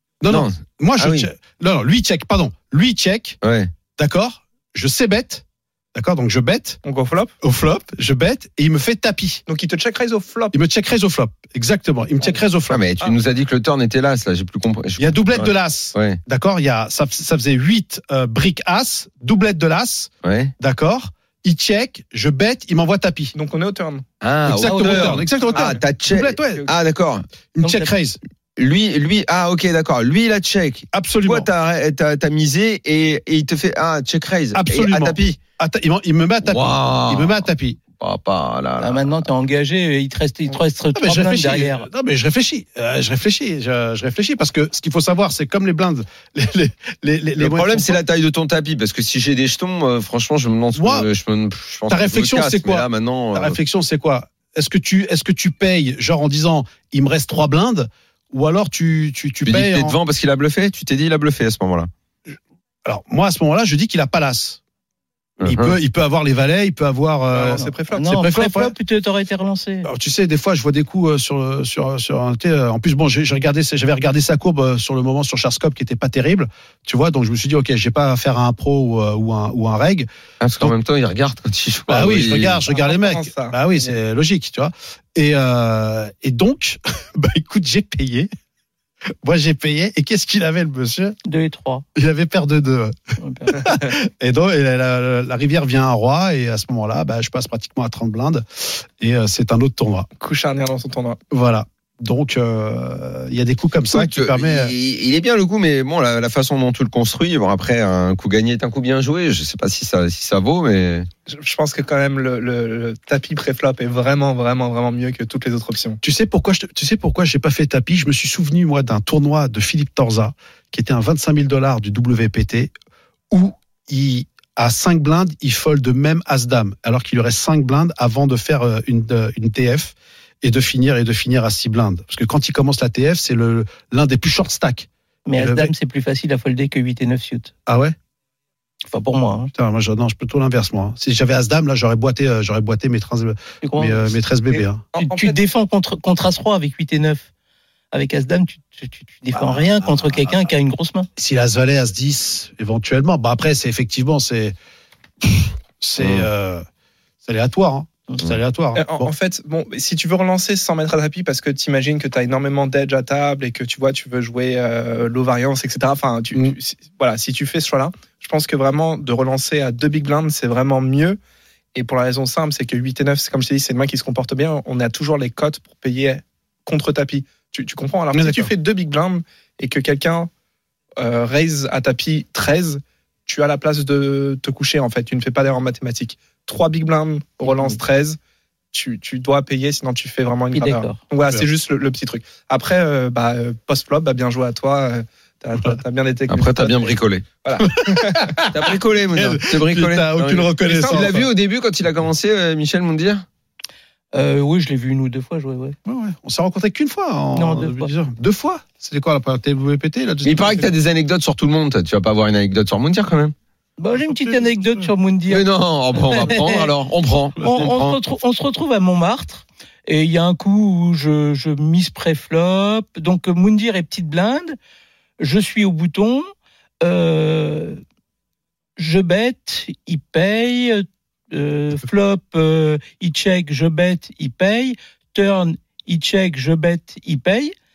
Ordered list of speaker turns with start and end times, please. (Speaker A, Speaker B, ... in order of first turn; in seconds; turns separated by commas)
Speaker A: 0.2-3.4, Speaker B: 0.3-1.3, Speaker B: 3.4-3.7, Speaker A: 4.0-6.8, Speaker C: 6.8-7.3, Speaker A: 7.4-9.4, Speaker C: 9.5-10.6, Speaker A: 10.5-12.8, Speaker B: 12.7-16.2, Speaker A: 15.0-23.3, Speaker B: 20.2-20.5, Speaker C: 23.3-24.0, Speaker B: 24.2-27.2, Speaker A: 24.4-26.7, Speaker C: 24.7-25.8, Speaker A: 27.5-28.2, Speaker D: 27.6-27.9, Speaker B: 28.6-35.4, Speaker A: 30.9-31.5, Speaker A: 34.5-37.8, Speaker B: 36.5-37.4, Speaker B: 38.0-39.2, Speaker D: 38.8-41.9, Speaker A: 40.9-48.0, Speaker B: 47.4-53.6, Speaker A: 50.7-51.1, Speaker A: 51.9-60.0, Speaker B: 59.4-61.9, Speaker A: 62.3-64.6, Speaker B: 65.4-65.7, Speaker A: 65.4-68.7, Speaker C: 67.3-68.1, Speaker D: 67.9-69.9, Speaker A: 69.8-80.1, Speaker B: 80.4-82.6, Speaker A: 81.9-88.3, Speaker C: 82.7-83.9, Speaker A: 89.2-91.2, Speaker D: 91.2-91.8, Speaker A: 91.9-100.1, Speaker D: 93.2-93.5, Speaker C: 100.2-101.2, Speaker A: 101.3-104.7, Speaker B: 103.9-111.1, Speaker C: 111.3-116.0, Speaker A: 116.0-122.7, Speaker A: 123.3-135.7, Speaker D: 135.2-137.5, Speaker A: 137.7-137.9, Speaker D: 138.8-139.5, Speaker A: 139.5-144.8, Speaker D: 143.6-144.1, Speaker C: 144.5-145.4, Speaker D: 144.9-147.2, Speaker D: 147.9-151.1, Speaker A: 149.3-150.4, Speaker A: 151.2-154.6, Speaker A: 155.2-156.6, Speaker B: 156.0-156.3, Speaker A: 157.2-159.1, Speaker C: 158.7-171.2, Speaker C: 171.7-180.3, Speaker A: 178.1-178.5, Speaker C: 181.0-188.2, Speaker C: 188.7-198.3, Speaker D: 190.5-191.0, Speaker B: 196.3-197.2, Speaker A: 197.7-201.3, Speaker B: 198.5-203.2, Speaker C: 200.6-201.2, Speaker D: 204.1-205.8, Speaker A: 205.8-210.7, Speaker D: 207.3-207.9, Speaker B: 210.2-213.3, Speaker D: 213.8-216.7, Speaker A: 214.0-214.9, Speaker B: 215.3-218.0, Speaker D: 217.4-224.6, Speaker D: 225.2-226.2, Speaker D: 226.8-227.8, Speaker D: 228.8-237.5